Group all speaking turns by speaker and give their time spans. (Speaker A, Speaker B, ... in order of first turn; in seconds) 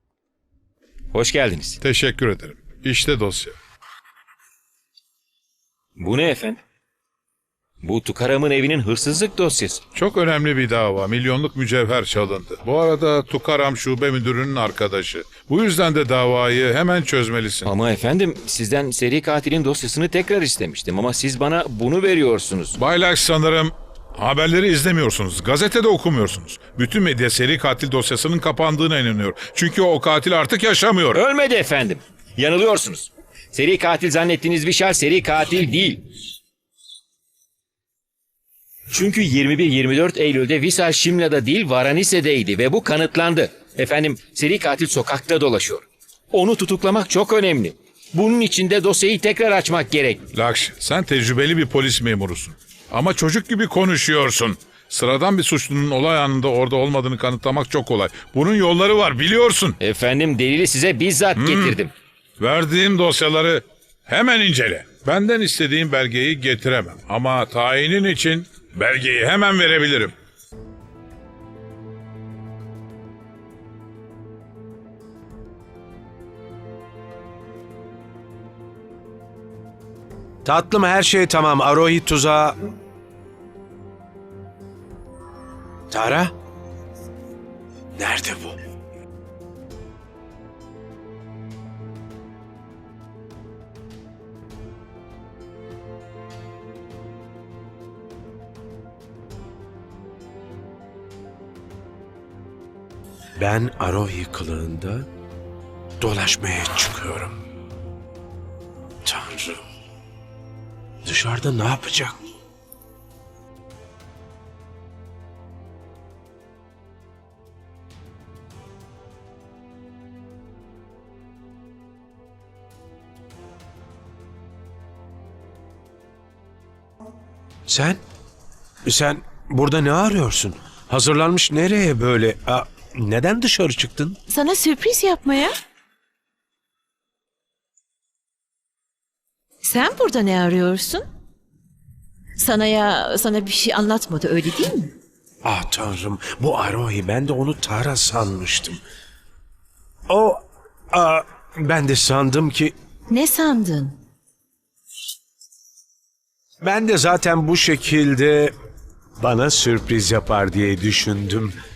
Speaker A: 1.1-1.8, 6.0-6.6, 7.8-9.8, 17.6-22.8, 31.1-36.0, 38.9-50.2, 59.8-61.9
Speaker B: 1.8-3.5, 9.9-17.7, 22.8-31.2, 50.3-59.8, 61.4-61.8, 62.4-70.1
Speaker C: 80.5-82.6, 85.9-86.3, 88.0-88.6, 103.4-105.1, 106.0-107.4, 109.0-109.7, 111.0-112.2, 127.7-128.0, 128.9-134.2, 145.4-148.8, 150.1-152.7, 156.6-158.5, 159.2-161.5
Speaker D: 134.3-135.5, 139.6-141.1, 142.4-144.9, 153.1-154.0